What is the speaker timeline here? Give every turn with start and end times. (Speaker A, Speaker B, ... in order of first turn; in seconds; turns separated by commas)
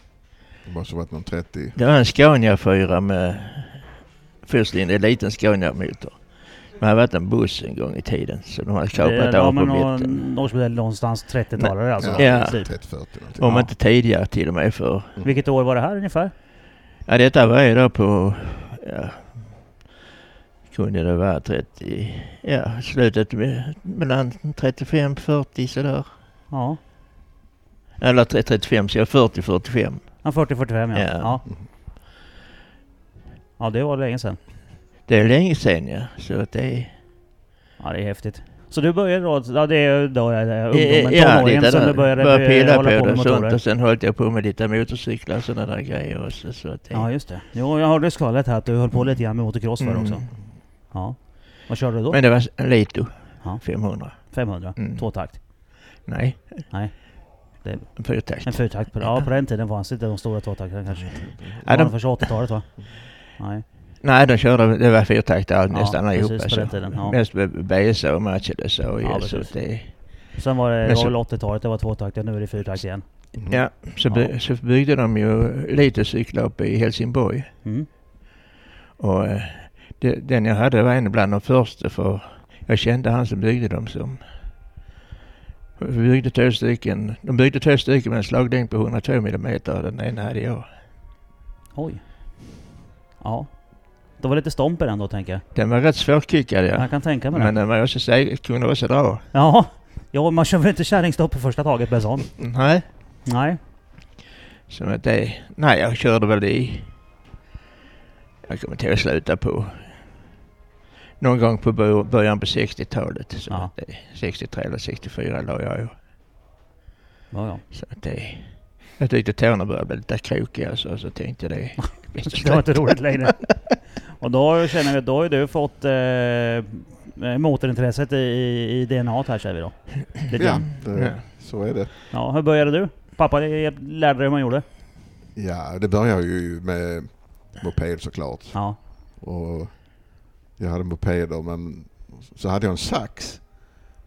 Speaker A: 0.6-1.8, Speaker B: 1.8-10.2, Speaker C: 9.0-12.8, Speaker B: 11.6-15.1, Speaker A: 12.0-13.4, Speaker C: 13.4-13.7, Speaker C: 15.2-16.3, Speaker B: 17.1-19.4, Speaker B: 20.7-26.1, Speaker C: 26.5-26.8, Speaker B: 28.0-30.3, Speaker C: 30.2-31.4, Speaker B: 30.9-31.4, Speaker C: 33.6-34.4, Speaker B: 35.1-36.9, Speaker C: 37.8-43.6, Speaker B: 40.7-47.1, Speaker C: 46.9-50.2, Speaker B: 49.8-50.3, Speaker C: 50.9-52.2, Speaker B: 52.1-55.0, Speaker C: 53.4-55.4, Speaker B: 56.0-56.7, Speaker C: 56.7-63.6, Speaker B: 58.0-59.2, Speaker A: 61.0-61.6, Speaker B: 61.6-62.3, Speaker B: 64.0-70.3, Speaker C: 65.7-67.2, Speaker C: 69.0-69.5, Speaker C: 70.3-73.1, Speaker B: 70.8-71.1, Speaker A: 73.3-73.6, Speaker B: 73.5-77.5, Speaker B: 79.0-84.2, Speaker B: 85.8-90.7, Speaker C: 91.7-92.0, Speaker C: 93.2-93.5, Speaker C: 94.2-95.4, Speaker B: 95.5-99.2, Speaker C: 96.8-97.5, Speaker C: 99.3-102.5, Speaker B: 102.4-102.8, Speaker C: 103.2-103.6, Speaker B: 104.7-106.9, Speaker B: 108.5-110.1, Speaker B: 111.2-115.9, Speaker C: 117.3-117.6, Speaker B: 117.7-123.5, Speaker C: 122.1-130.7, Speaker A: 130.3-131.9, Speaker B: 130.9-131.2, Speaker C: 132.1-134.6, Speaker A: 135.3-143.5